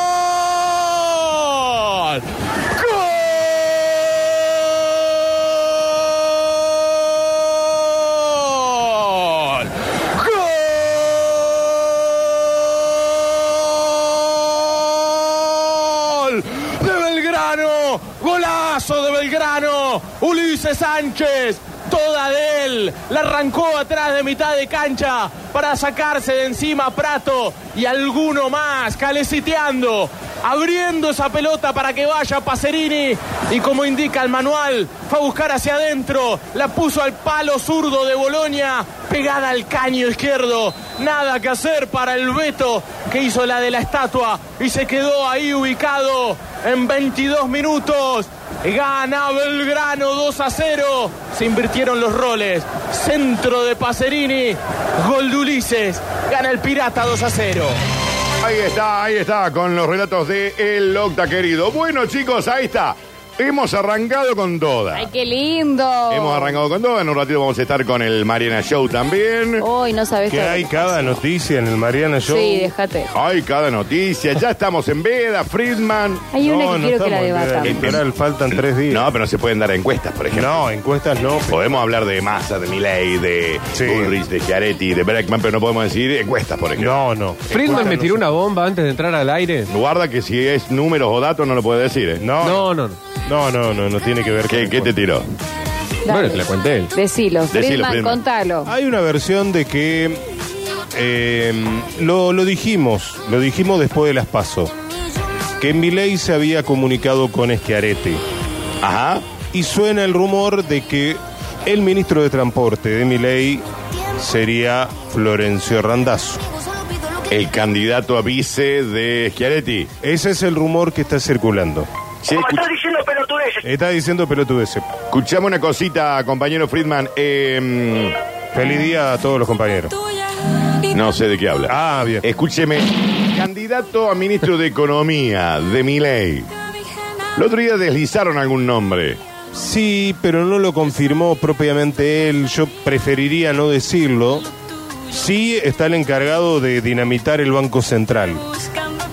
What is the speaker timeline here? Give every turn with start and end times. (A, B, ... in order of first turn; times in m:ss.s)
0:01.0-0:02.2 A
0:02.8-0:03.2 A
0:08.3-0:11.2 A
0:15.3-0:57.7 A
0:58.4-1:05.0 B
1:04.9-1:06.6 C
1:06.1-1:09.6 B
1:09.6-1:11.1 C
1:10.3-1:12.7 D
1:12.3-1:13.1 C
1:13.1-1:16.3 B
1:16.3-1:17.9 C
1:16.4-1:19.1 D
1:17.6-1:20.6 B
1:20.3-1:21.8 D
1:21.5-1:26.9 B
1:23.7-1:24.2 D
1:26.8-1:28.3 D
1:27.5-1:29.7 E
1:29.7-1:32.2 B
1:32.2-1:32.7 D
1:32.4-1:33.0 E
1:33.2-1:34.9 D
1:34.5-1:35.2 B
1:36.0-1:38.7 C
1:36.1-1:36.9 E
1:37.5-1:38.2 B
1:38.6-1:40.2 D
1:40.9-1:44.7 D
1:45.6-1:48.2 D
1:48.8-1:49.2 B
1:49.5-1:53.6 D
1:54.2-1:56.4 D
1:57.3-1:59.9 B
2:00.0-2:01.9 D
2:02.2-2:02.8 B
2:03.6-2:04.9 D
2:05.1-2:08.1 B
2:08.5-2:09.9 D
2:10.9-2:16.5 B
2:11.7-2:12.2 D
2:17.4-2:19.2 B
2:19.5-2:24.4 D
2:25.1-2:28.4 D